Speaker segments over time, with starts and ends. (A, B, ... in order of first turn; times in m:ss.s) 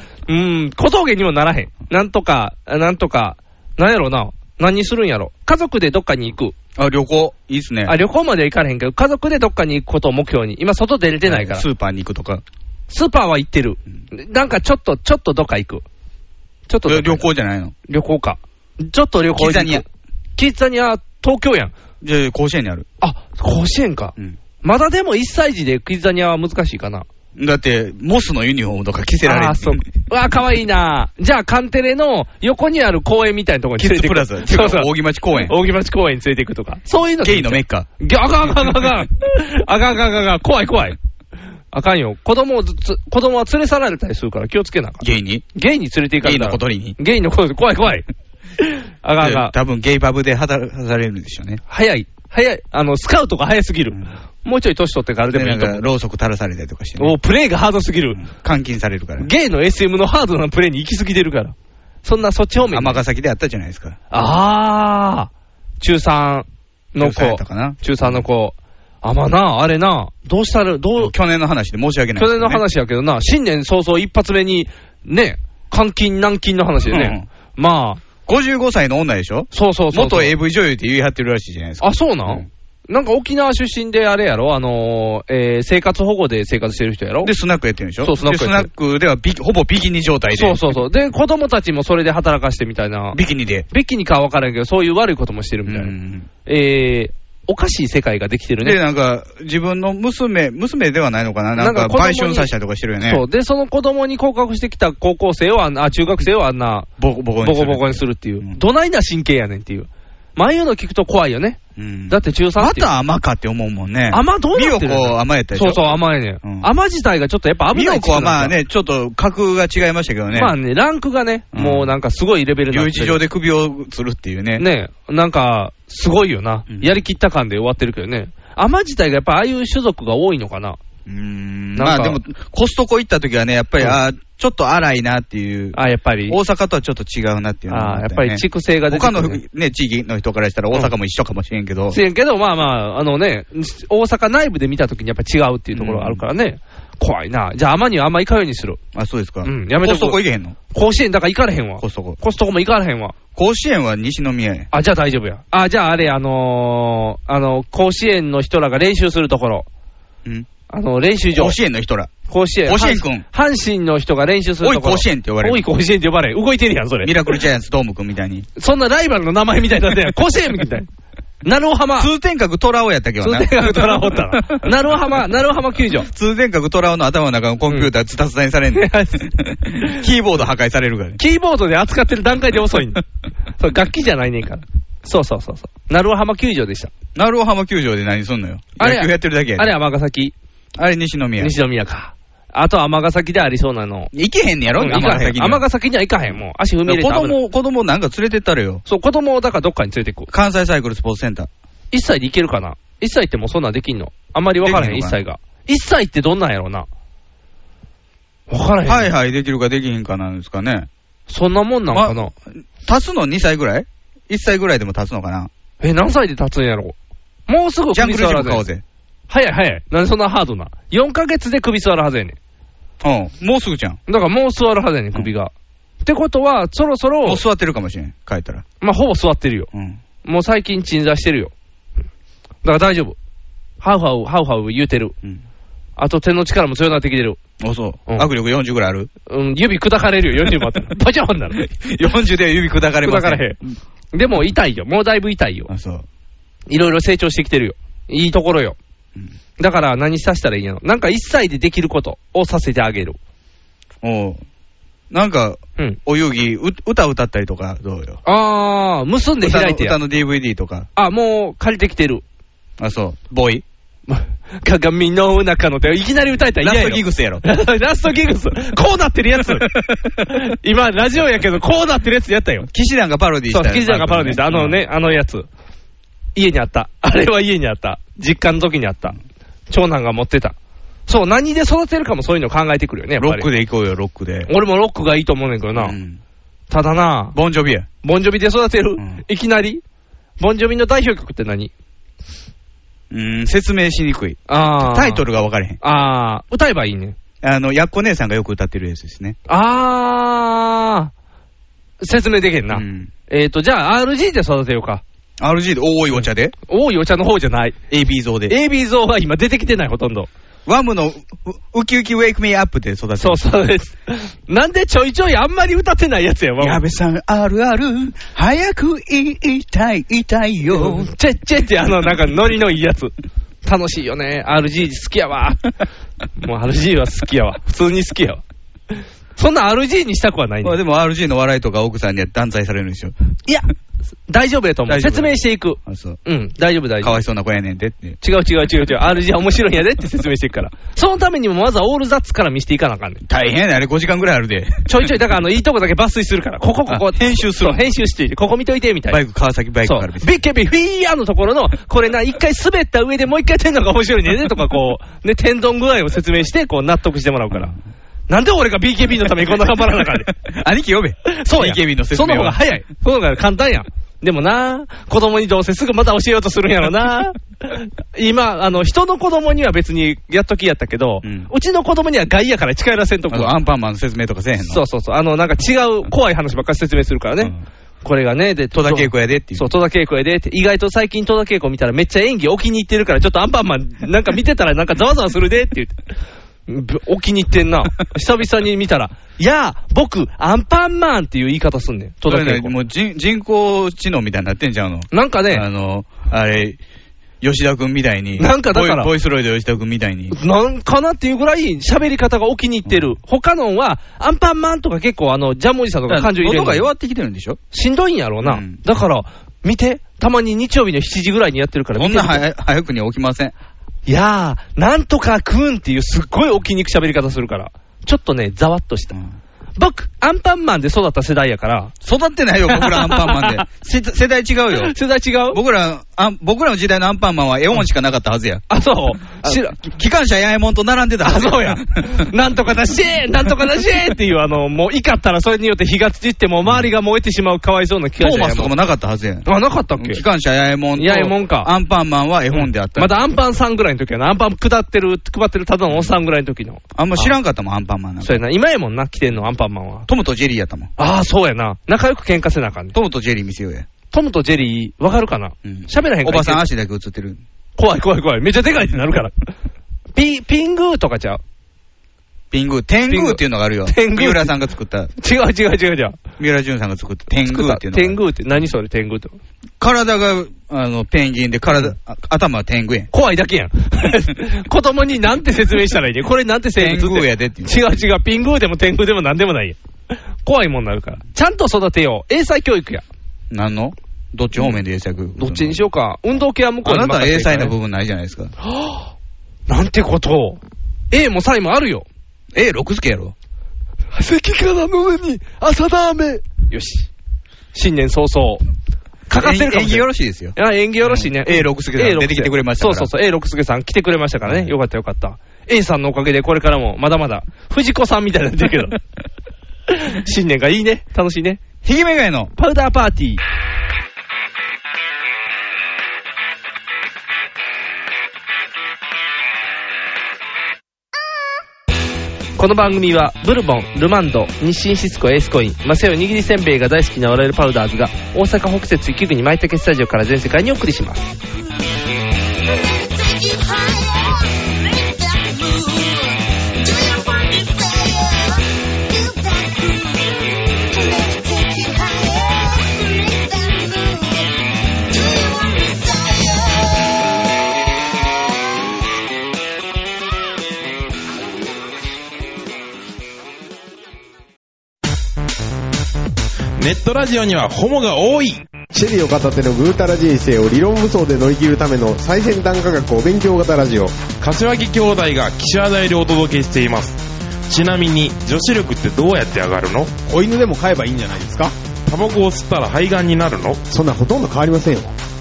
0:00.3-0:06.6 A
0:06.8-0:08.0 B
0:07.9-0:11.6 A
0:11.2-0:12.4 B
0:12.9-0:15.8 A
0:16.7-0:17.3 A
0:16.8-0:17.8 B
0:17.9-0:19.8 A
0:19.4-0:19.8 B
0:20.4-0:21.7 A
0:22.0-0:22.9 B
0:23.0-0:27.1 A
0:27.4-0:29.9 B
0:29.2-0:41.0 A
0:33.8-0:35.6 B
0:37.2-0:37.9 B
0:41.7-0:48.0 A
0:45.0-0:45.5 B
0:46.2-0:47.0 B
0:48.6-0:49.5 A
0:49.2-0:51.6 B
0:51.7-0:55.9 A
0:55.3-0:57.2 B
0:57.0-0:58.2 A
0:58.1-0:59.3 B
0:59.2-1:03.0 A
1:02.7-1:04.0 B
1:04.1-1:05.3 A
1:05.8-1:11.1 A
1:07.0-1:08.2 B
1:11.0-1:12.6 B
1:12.2-1:18.0 A
1:16.9-1:17.3 B
1:18.2-1:22.5 B
1:19.5-1:20.4 A
1:21.8-1:27.3 A
1:27.2-1:30.6 B
1:28.0-1:28.7 A
1:30.3-1:33.2 A
1:33.1-1:33.7 B
1:33.7-1:35.9 A
1:35.7-1:36.3 B
1:36.5-1:38.8 A
1:38.6-1:43.2 B
1:41.6-1:42.5 A
1:43.0-1:46.9 A
1:47.0-1:48.6 B
1:47.4-1:52.9 A
1:51.8-1:56.7 B
1:54.1-1:58.6 A
1:57.7-2:00.6 B
2:00.3-2:03.2 A
2:01.5-2:02.0 B
2:02.7-2:04.7 B
2:04.6-2:10.8 A
2:06.7-2:07.0 B
2:11.1-2:22.0 B
2:11.8-2:12.2 A
2:15.7-2:16.4 A
2:17.7-2:19.4 A
2:21.9-2:28.8 A
2:25.7-2:26.2 B
2:29.0-2:30.6 B
2:29.4-2:30.2 A
2:30.7-2:33.1 A
2:31.8-2:32.2 B
2:33.4-2:34.7 B
2:34.7-2:39.7 A
2:40.7-2:41.6 A
2:41.3-2:42.1 B
2:42.3-2:47.2 A
2:42.6-2:43.2 B
2:44.6-2:45.7 B
2:47.0-2:48.5 B
2:48.6-2:50.9 A
2:51.4-2:52.1 A
2:52.0-2:54.6 B
2:53.2-2:56.1 A
2:56.1-3:01.2 B
2:58.7-2:59.3 A
3:01.2-3:03.0 A
3:03.6-3:06.9 A
3:07.2-3:09.8 B
3:08.8-3:10.3 A
3:10.8-3:11.6 B
3:11.4-3:14.1 A
3:14.1-3:15.6 B
3:14.7-3:17.4 A
3:16.9-3:18.8 B
3:18.9-3:20.3 A
3:20.3-3:21.5 B
3:21.9-3:26.9 A
3:24.6-3:25.2 B
3:28.5-3:29.1 A
3:28.8-3:30.9 B
3:31.3-3:32.3 A
3:31.9-3:35.5 B
3:35.8-3:37.0 A
3:37.5-3:38.6 A
3:37.9-3:38.8 B
3:39.3-3:42.4 A
3:43.0-3:44.0 B
3:44.1-3:45.5 A
3:46.0-3:47.4 A
3:47.2-3:48.6 B
3:48.8-3:49.7 A
3:49.7-3:50.0 B
3:50.2-3:51.5 A
3:52.6-3:53.2 A
3:53.8-3:55.1 A
3:56.0-3:57.4 A
3:57.6-3:59.1 B
3:59.3-4:01.6 A
4:01.6-4:03.7 B
4:03.0-4:03.6 A
4:04.1-4:05.7 A
4:05.7-4:06.0 B
4:06.7-4:08.8 A
4:09.6-4:13.2 A
4:14.0-4:14.4 B
4:15.1-4:18.2 B
4:18.2-4:20.0 A
4:19.4-4:20.9 B
4:21.0-4:22.2 A
4:22.8-4:23.6 B
4:24.1-4:29.7 A
4:26.6-4:27.4 B
4:29.6-4:30.1 B
4:30.3-4:32.7 A
4:32.7-4:34.8 B
4:33.5-4:35.5 A
4:36.4-4:39.2 A
4:39.7-4:40.6 A
4:41.1-4:43.5 A
4:43.2-4:44.5 B
4:44.5-4:46.0 A
4:45.8-4:46.2 B
4:46.7-4:47.4 A
4:47.4-4:47.9 B
4:48.0-4:49.8 A
4:50.4-4:51.7 A
4:53.1-4:55.8 B
4:54.5-4:55.2 A
4:55.8-4:57.2 A
4:57.4-4:59.4 B
4:59.5-5:01.1 A
5:02.0-5:05.0 A
5:02.7-5:03.1 B
5:05.4-5:06.5 B
5:06.2-5:07.8 A
5:07.9-5:08.6 B
5:08.5-5:10.3 A
5:10.7-5:13.5 B
5:13.2-5:16.8 A
5:16.6-5:21.1 B
5:20.7-5:23.1 A
5:23.6-5:25.7 A
5:26.4-5:28.4 A
5:29.4-5:30.8 A
5:30.6-5:33.1 B
5:34.3-5:37.2 A
5:34.9-5:36.2 B
5:37.0-5:38.2 B
5:38.2-5:43.2 A
5:43.3-5:44.9 B
5:44.9-5:49.2 A
5:46.9-5:47.8 B
5:49.1-5:50.3 B
5:49.8-5:57.8 A
5:58.3-6:00.3 A
6:00.0-6:02.6 B
6:01.3-6:13.5 A
6:11.2-6:11.5 B
6:13.3-6:14.8 B
6:14.6-6:26.0 A
6:18.7-6:19.7 B
6:26.7-6:32.7 A
6:32.3-6:36.8 B
6:35.1-6:35.7 A
6:37.4-6:40.4 B
6:38.4-6:39.1 A
6:40.3-6:46.9 A
6:42.9-6:43.1 B
6:46.1-6:47.6 B
6:47.7-6:52.4 A
6:48.4-6:48.8 B
6:52.0-6:53.5 B
6:54.1-6:59.2 A
6:59.8-7:01.9 A
7:02.0-7:05.0 B
7:02.7-7:03.6 A
7:04.8-7:05.6 A
7:05.5-7:08.7 B
7:08.7-7:09.8 A
7:09.3-7:12.2 B
7:11.2-7:18.7 A
7:18.2-7:23.2 B
7:19.5-7:20.2 A
7:21.0-7:21.7 A
7:22.5-7:27.4 A
7:27.0-7:28.4 B
7:28.2-7:30.1 A
7:30.1-7:30.9 B
7:31.0-7:33.0 A
7:32.9-7:33.9 B
7:34.1-7:36.6 A
7:35.6-7:37.4 B
7:37.8-7:39.4 A
7:40.2-7:41.4 A
7:42.5-7:45.1 B
7:43.1-7:44.5 A
7:45.2-7:46.2 A
7:46.4-7:48.2 B
7:47.4-7:49.4 A
7:49.8-7:53.1 B
7:53.1-7:59.8 A
7:56.8-7:57.8 B
8:00.4-8:03.0 A
8:03.5-8:05.8 B
8:05.4-8:07.7 A
8:06.8-8:08.5 B
8:08.6-8:09.1 A
8:09.7-8:10.6 A
8:11.1-8:12.1 A
8:12.5-8:13.3 B
8:14.1-8:17.1 A
8:17.7-8:18.6 A
8:19.3-8:29.0 A
8:19.3-8:23.1 B
8:24.5-8:24.7 B
8:29.9-8:31.6 A
8:31.8-8:32.5 B
8:32.6-8:33.4 A
8:42.6-8:51.3 A
8:53.2-8:54.0 C
8:56.9-8:57.7 C
9:00.9-9:04.2 C
9:05.2-9:06.4 C
9:16.8-9:18.6 D
9:18.9-9:24.2 E
9:24.4-9:30.1 D
9:30.3-9:31.7 E
9:32.1-9:33.8 D
9:33.9-9:35.1 E